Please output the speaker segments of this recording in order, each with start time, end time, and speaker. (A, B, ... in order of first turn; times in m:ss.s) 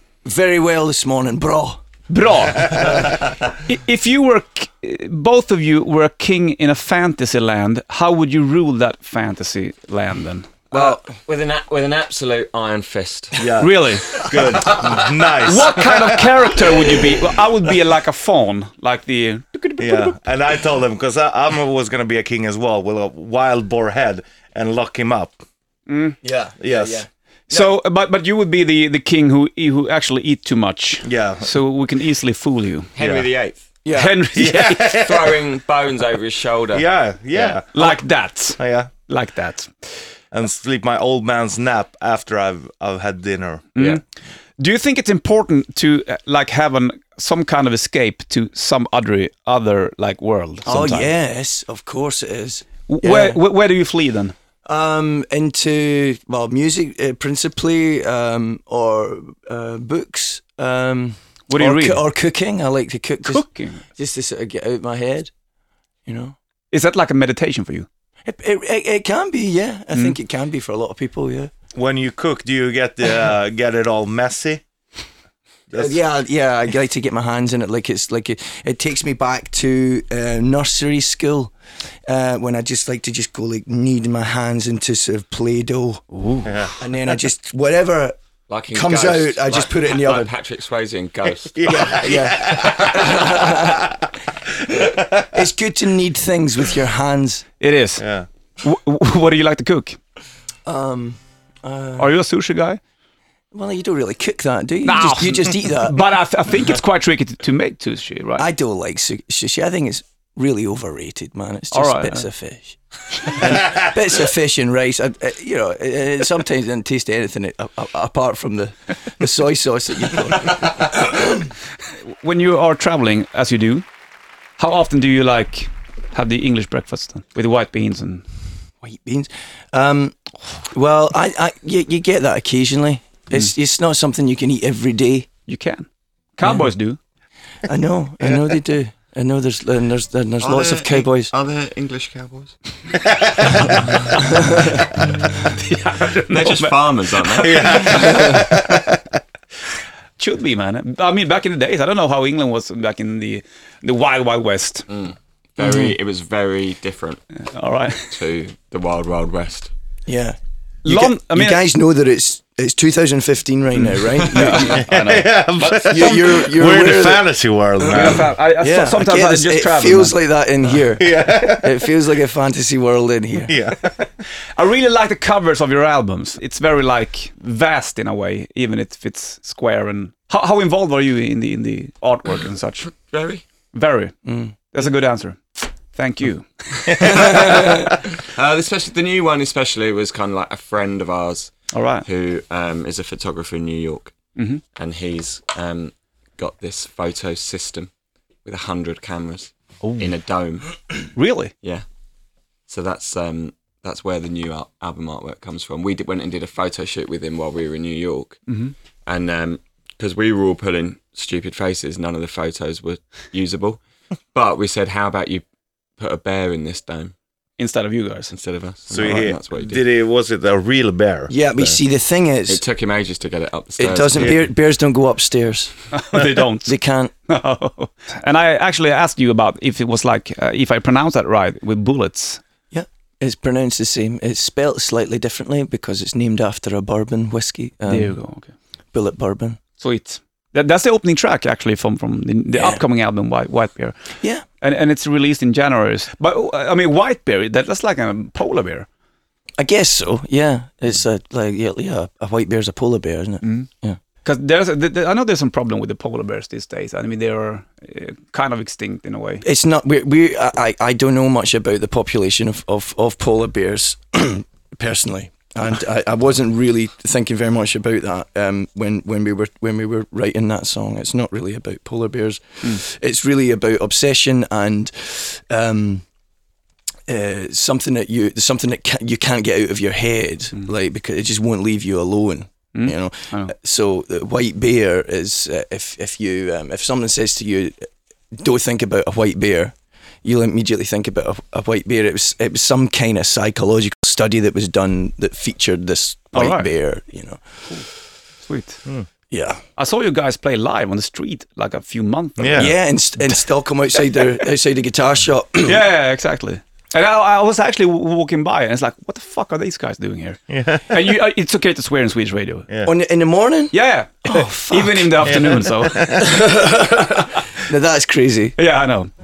0:00.2-0:01.8 A
0:02.1-0:10.6 B
0:02.6-0:03.2 A
0:10.7-0:13.4 C
0:10.7-0:11.0 A
0:13.4-0:16.6 D
0:13.6-0:14.2 B
0:15.4-0:20.2 B
0:19.8-0:25.4 D
0:25.9-0:26.2 B
0:26.2-0:27.7 A
0:26.6-0:27.1 D
0:27.5-0:32.9 B
0:31.0-0:31.6 D
0:32.9-0:33.6 C
0:33.0-0:33.3 D
0:33.8-0:34.2 A
0:33.9-0:34.9 B
0:34.3-0:35.4 D
0:35.0-0:37.5 C
0:36.7-0:38.0 D
0:37.7-0:39.7 B
0:38.6-0:38.9 D
0:40.3-0:43.7 D
0:43.8-0:44.0 B
0:44.6-0:51.1 B
0:50.6-0:53.4 A
0:52.9-0:54.3 B
0:54.6-1:05.3 A
1:01.5-1:02.0 B
1:03.2-1:03.8 B
1:06.0-1:06.3 A
1:06.7-1:07.9 B
1:08.2-1:11.5 A
1:11.7-1:14.6 D
1:15.7-1:16.0 D
1:15.7-1:21.5 A
1:22.1-1:26.1 A
1:26.1-1:26.5 B
1:26.5-1:26.7 D
1:26.8-1:28.2 A
1:28.5-1:31.7 C
1:28.7-1:30.3 A
1:31.4-1:33.8 D
1:31.6-1:33.9 A
1:34.9-1:37.4 A
1:37.6-1:38.0 B
1:38.0-1:38.3 D
1:38.6-1:40.0 B
1:40.6-1:42.1 A
1:42.0-1:42.8 B
1:43.5-1:46.0 A
1:44.8-1:48.4 B
1:48.4-2:01.3 A
1:51.7-1:52.2 B
2:02.0-2:03.8 B
2:04.6-2:08.2 B
2:08.8-2:15.3 A
2:15.5-2:17.0 B
2:17.6-2:21.3 A
2:20.4-2:22.6 C
2:23.0-2:23.8 D
2:23.8-2:24.2 C
2:24.2-2:24.7 A
2:24.4-2:24.8 B
2:25.4-2:26.8 B
2:26.3-2:28.1 C
2:27.3-2:27.7 B
2:27.4-2:29.0 D
2:27.8-2:28.5 A
2:30.2-2:34.9 B
2:34.9-2:37.2 C
2:37.4-2:38.1 B
2:38.0-2:39.7 C
2:40.0-2:44.9 A
2:40.8-2:41.6 B
2:43.8-2:46.3 B
2:44.6-2:48.3 D
2:45.9-2:47.3 A
2:47.8-2:53.5 A
2:47.9-2:50.2 B
2:51.0-2:51.8 D
2:53.5-2:54.1 D
2:54.6-3:03.0 B
3:03.1-3:03.4 C
3:03.7-3:04.1 B
3:04.2-3:04.5 A
3:04.7-3:07.7 B
3:06.9-3:14.1 C
3:11.7-3:12.0 B
3:14.4-3:14.6 B
3:14.8-3:17.9 C
3:18.4-3:21.1 C
3:21.1-3:21.5 B
3:22.7-3:28.5 C
3:29.0-3:33.8 C
3:34.3-3:35.4 C
3:36.0-3:37.1 C
3:37.6-3:38.3 B
3:38.3-3:39.8 C
3:38.9-3:41.8 D
3:41.3-3:42.6 A
3:42.5-3:44.4 C
3:43.8-3:45.8 A
3:45.9-3:52.4 B
3:46.6-3:47.1 A
3:52.7-3:58.2 A
3:57.9-3:58.5 B
3:58.9-3:59.6 A
3:59.8-4:04.0 B
4:02.5-4:02.8 A
4:04.6-4:08.9 B
4:09.6-4:14.0 A
4:13.4-4:13.7 B
4:14.2-4:19.4 B
4:19.4-4:36.0 A
4:37.1-4:57.4 A
4:42.7-4:43.5 B
4:56.3-4:56.7 B
4:58.4-4:58.8 B
4:59.3-4:59.6 A
4:59.8-5:02.8 B
5:02.4-5:02.7 D
5:02.6-5:05.8 A
5:05.6-5:12.7 B
5:10.5-5:11.1 D
5:12.8-5:15.4 A
5:13.7-5:16.8 B
5:15.3-5:16.2 D
5:16.1-5:18.6 A
5:18.6-5:19.1 B